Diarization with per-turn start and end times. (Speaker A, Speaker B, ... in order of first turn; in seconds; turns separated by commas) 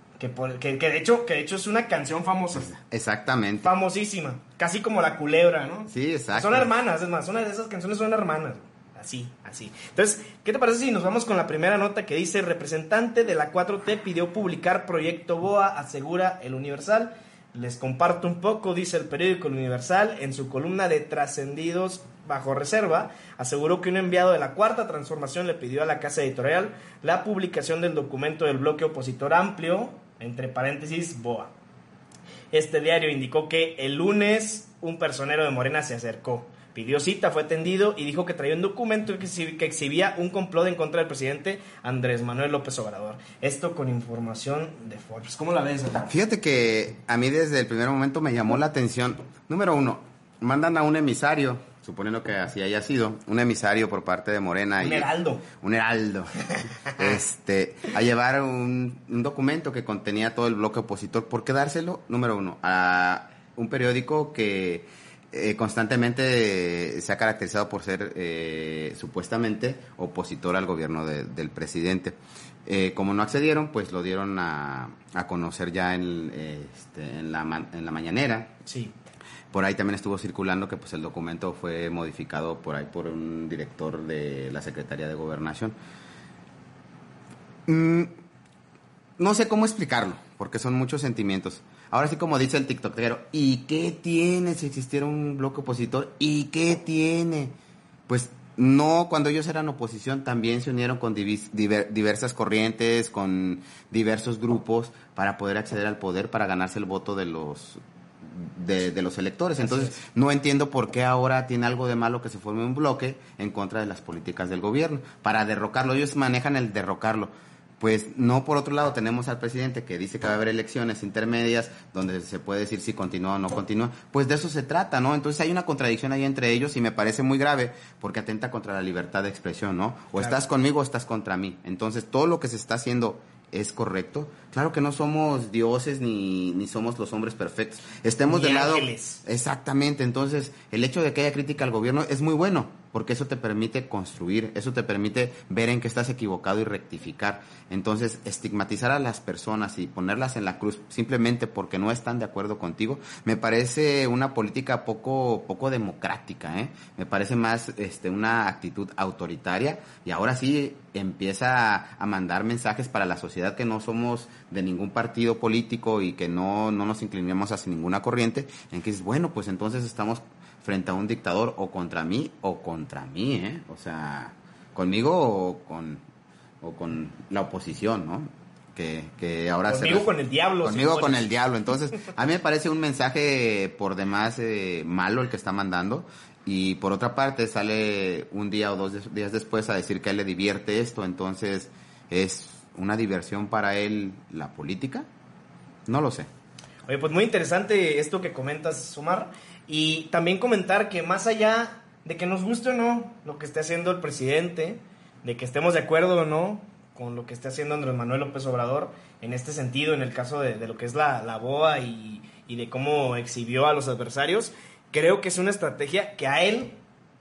Speaker A: 0.2-2.7, Speaker B: 2.6-3.7, Speaker A: 3.6-31.5, Speaker B: 5.9-6.7, Speaker A: 32.5-46.1, Speaker B: 46.1-78.5, Speaker A: 54.8-55.5, Speaker A: 56.6-57.0, Speaker A: 78.7-78.9, Speaker B: 79.5-85.8, Speaker B: 87.7-88.1, Speaker B: 89.2-97.5, Speaker B: 98.1-176.0, Speaker A: 109.6-110.0, Speaker A: 138.3-139.2, Speaker B: 176.6-180.1, Speaker A: 179.7-181.3, Speaker B: 180.6-195.1, Speaker B: 195.8-196.3, Speaker A: 196.8-216.8